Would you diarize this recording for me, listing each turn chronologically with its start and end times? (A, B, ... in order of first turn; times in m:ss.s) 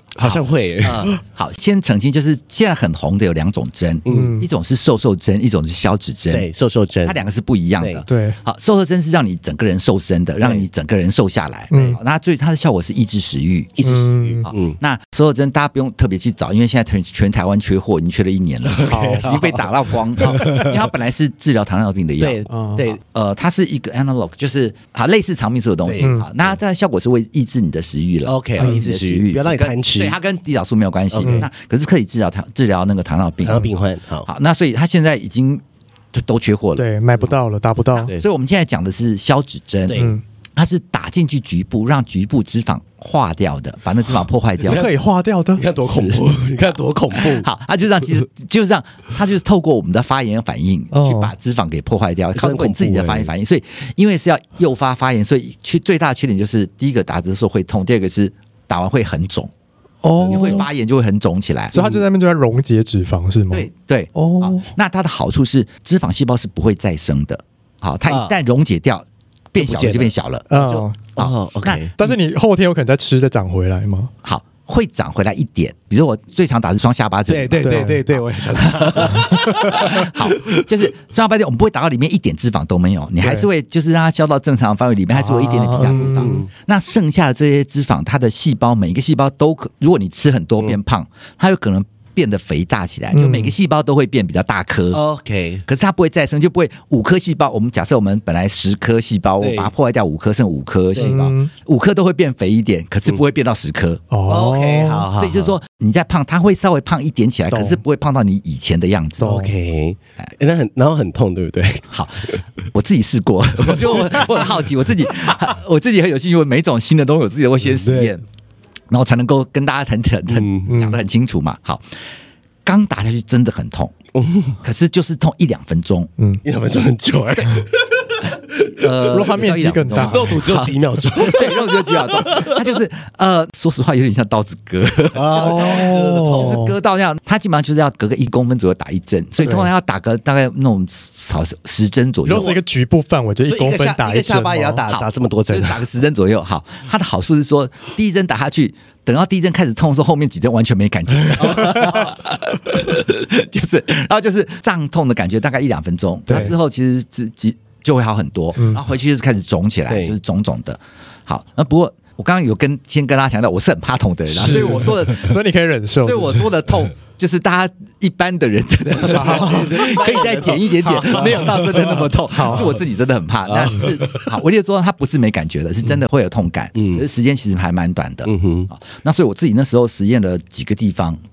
0:00.2-0:06.5 A
0:00.2-0:01.2 B
0:04.0-0:04.4 B
0:04.0-0:04.5 C
0:06.3-0:07.2 B
0:07.0-0:13.7 A
0:07.8-0:08.0 B
0:08.0-0:08.4 C
0:10.4-0:10.7 B
0:11.7-0:12.0 C
0:11.7-0:12.0 B
0:13.8-0:14.7 B
0:13.8-0:14.4 C
0:14.4-0:22.4 A
0:18.6-0:20.9 B
0:18.9-0:19.4 C
0:22.2-0:23.0 B
0:22.5-0:22.8 C
0:23.0-0:33.7 A
0:25.8-0:26.5 B
0:26.0-0:26.3 C
0:28.2-0:30.2 B
0:28.6-0:28.8 C
0:31.1-0:31.5 B
0:31.2-0:31.5 C
0:33.4-0:34.3 B
0:34.3-0:36.8 A
0:36.8-0:38.1 C
0:38.1-0:44.9 A
0:39.9-0:40.1 B
0:39.9-0:40.2 C
0:44.6-0:44.9 B
0:44.6-0:45.6 C
0:45.6-0:47.5 B
0:45.8-0:59.5 A
0:50.9-0:51.3 C
0:52.3-0:53.3 B
1:00.0-1:00.6 C
1:00.2-1:00.6 B
1:00.2-1:01.7 A
1:01.7-1:02.0 B
1:01.7-1:04.7 C
1:03.5-1:10.4 A
1:08.0-1:08.3 B
1:09.6-1:11.9 B
1:10.5-1:11.0 C
1:11.2-1:12.1 A
1:12.0-1:14.1 C
1:14.2-1:35.0 A
1:17.3-1:20.6 B
1:17.6-1:18.0 C
1:19.1-1:19.9 C
1:25.1-1:26.4 C
1:25.9-1:26.5 B
1:33.1-1:33.5 C
1:34.9-1:35.6 B
1:35.7-1:44.0 A
1:39.4-1:39.7 B
1:41.0-1:41.5 C
1:44.1-1:45.1 C
1:44.2-1:45.6 B
1:45.2-1:49.3 A
1:47.5-1:47.8 C
1:49.2-1:49.5 C
1:49.2-1:52.4 B
1:51.9-1:58.2 A
1:53.6-1:54.7 B
1:57.6-1:58.2 B
1:58.9-2:01.8 A
2:00.3-2:00.7 B
2:00.6-2:01.0 C
2:02.6-2:03.9 A
2:04.1-2:04.6 B
2:04.6-2:06.1 A
2:06.4-2:09.3 B
2:08.7-2:22.5 A
2:09.1-2:10.4 C
2:09.9-2:12.8 B
2:15.1-2:16.7 B
2:15.3-2:16.7 C
2:19.4-2:19.7 C
2:22.2-2:24.8 C
2:22.3-2:22.6 B
2:23.4-2:25.8 B
2:24.9-2:45.4 A
2:31.4-2:32.0 B
2:36.3-2:36.5 C
2:39.9-2:40.2 B
2:44.3-2:46.4 C
2:44.5-2:44.9 B
2:46.0-3:01.2 A
2:49.0-2:52.8 B
2:49.1-2:50.0 C
2:50.8-2:51.4 C
2:52.3-2:52.7 C
2:53.5-2:54.3 B
2:56.8-2:57.0 B
2:58.2-2:58.7 B